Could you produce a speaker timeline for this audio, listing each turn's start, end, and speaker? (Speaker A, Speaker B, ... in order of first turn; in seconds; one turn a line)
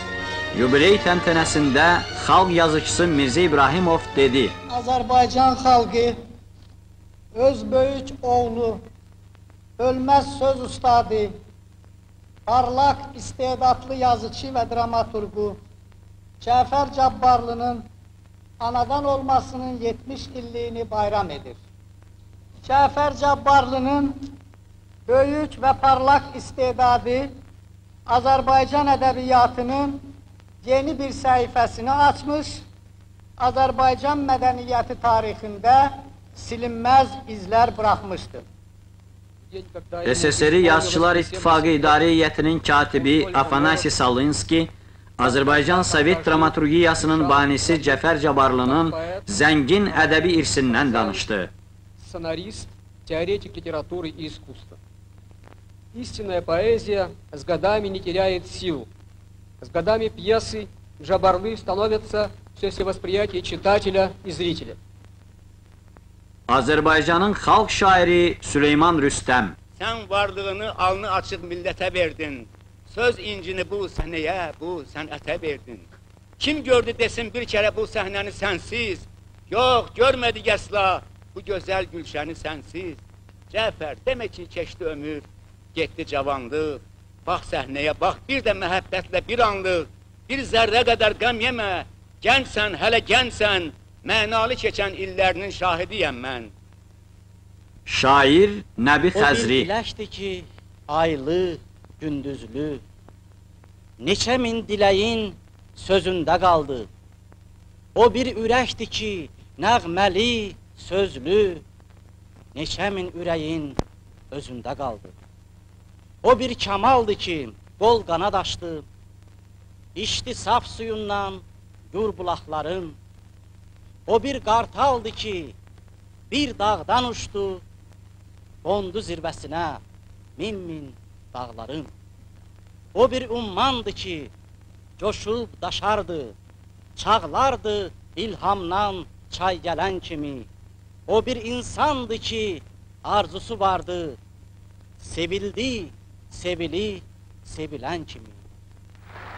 Speaker A: 0.5-4.5
Speaker B: 4.7-6.2
Speaker B: 7.3-8.8
Speaker B: 9.8-11.3
Speaker B: 12.5-15.6
Speaker B: 16.4-17.9
Speaker B: 18.6-21.6
Speaker B: 22.6-24.2
Speaker B: 25.1-27.3
Speaker B: 28.1-30.1
Speaker B: 30.6-32.6
Speaker B: 33.4-38.5
Speaker C: 39.5-42.2
Speaker A: 40.0-51.5
Speaker C: 42.9-43.9
Speaker C: 45.2-49.4
Speaker C: 49.9-51.3
Speaker C: 52.0-54.8
Speaker C: 55.9-58.9
Speaker C: 59.6-64.8
Speaker A: 66.5-69.6
Speaker D: 69.8-75.9
Speaker D: 76.4-83.0
Speaker D: 83.5-96.5
Speaker A: 97.9-99.7
Speaker E: 99.1-102.8
Speaker E: 104.0-106.9
Speaker E: 108.0-111.6
Speaker E: 112.5-113.8
Speaker E: 114.3-115.2
Speaker E: 116.2-118.8
Speaker E: 120.0-123.0
Speaker E: 124.1-125.5
Speaker E: 126.3-127.6
Speaker E: 128.6-129.8
Speaker E: 130.4-131.9
Speaker E: 132.9-134.3
Speaker E: 135.0-136.3
Speaker E: 137.0-140.5
Speaker E: 141.1-144.2
Speaker E: 145.0-148.4